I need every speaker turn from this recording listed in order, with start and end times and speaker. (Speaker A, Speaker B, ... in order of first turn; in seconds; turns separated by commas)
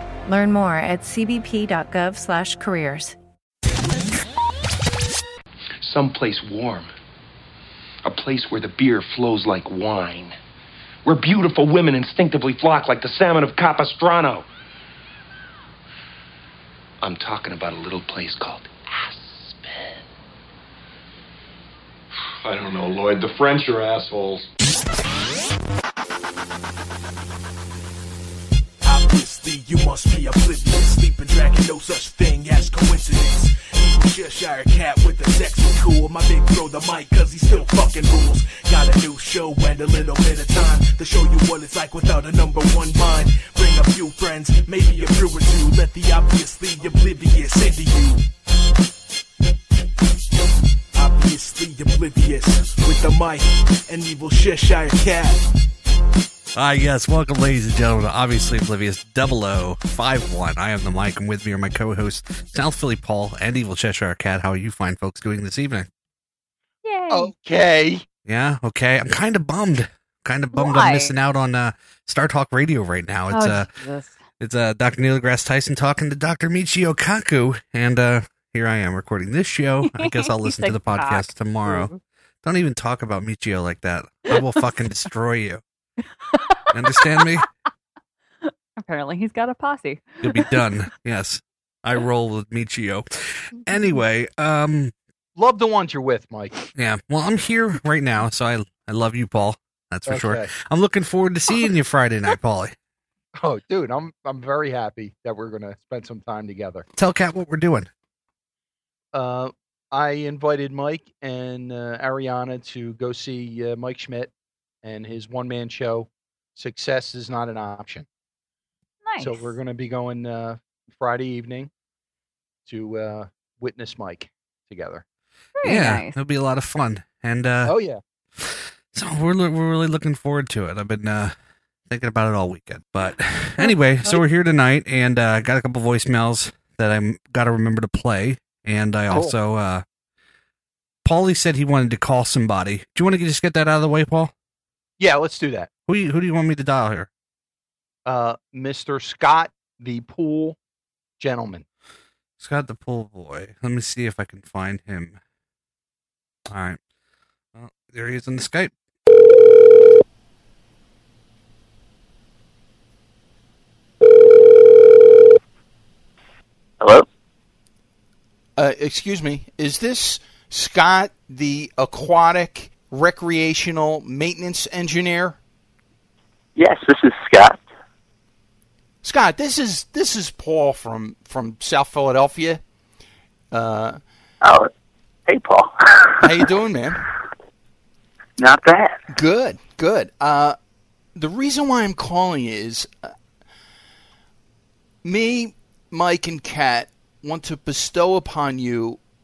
Speaker A: 0.3-3.2, Speaker B: 5.8-6.9, Speaker B: 8.0-10.4, Speaker B: 11.1-14.5, Speaker B: 17.0-20.1, Speaker C: 22.4-24.5, Speaker D: 28.8-48.2, Speaker D: 51.0-55.4, Speaker E: 56.5-65.9, Speaker F: 66.8-67.3, Speaker G: 67.1-68.0, Speaker E: 68.3-73.7, Speaker F: 70.5-71.1, Speaker F: 73.3-74.2, Speaker E: 74.4-81.9, Speaker F: 79.8-82.0, Speaker E: 82.4-85.6, Speaker F: 86.3-87.3, Speaker E: 86.7-87.5, Speaker F: 88.5-90.6, Speaker E: 90.2-94.9, Speaker G: 95.4-96.7, Speaker E: 96.8-102.8, Speaker G: 100.1-100.5, Speaker G: 103.4-106.9, Speaker E: 107.0-107.9, Speaker G: 109.1-114.3, Speaker G: 114.8-118.1, Speaker F: 119.0-119.4, Speaker G: 119.2-121.7, Speaker G: 122.7-125.0, Speaker F: 125.6-126.2, Speaker E: 125.6-127.8, Speaker G: 127.7-128.0, Speaker E: 128.4-131.3, Speaker E: 131.9-139.8, Speaker F: 133.6-134.2, Speaker E: 141.1-144.3, Speaker G: 145.0-145.7, Speaker E: 145.9-147.1, Speaker G: 148.1-150.6, Speaker G: 151.2-151.7, Speaker E: 152.4-155.2, Speaker E: 156.5-156.8, Speaker E: 157.6-158.7, Speaker H: 166.8-167.1, Speaker G: 168.6-175.4, Speaker H: 176.6-177.6, Speaker G: 179.0-182.6, Speaker G: 183.5-184.0, Speaker H: 184.4-184.7, Speaker H: 185.3-186.5, Speaker G: 186.2-187.0, Speaker H: 188.4-189.0, Speaker G: 189.1-190.6, Speaker G: 191.2-192.9, Speaker G: 195.0-199.0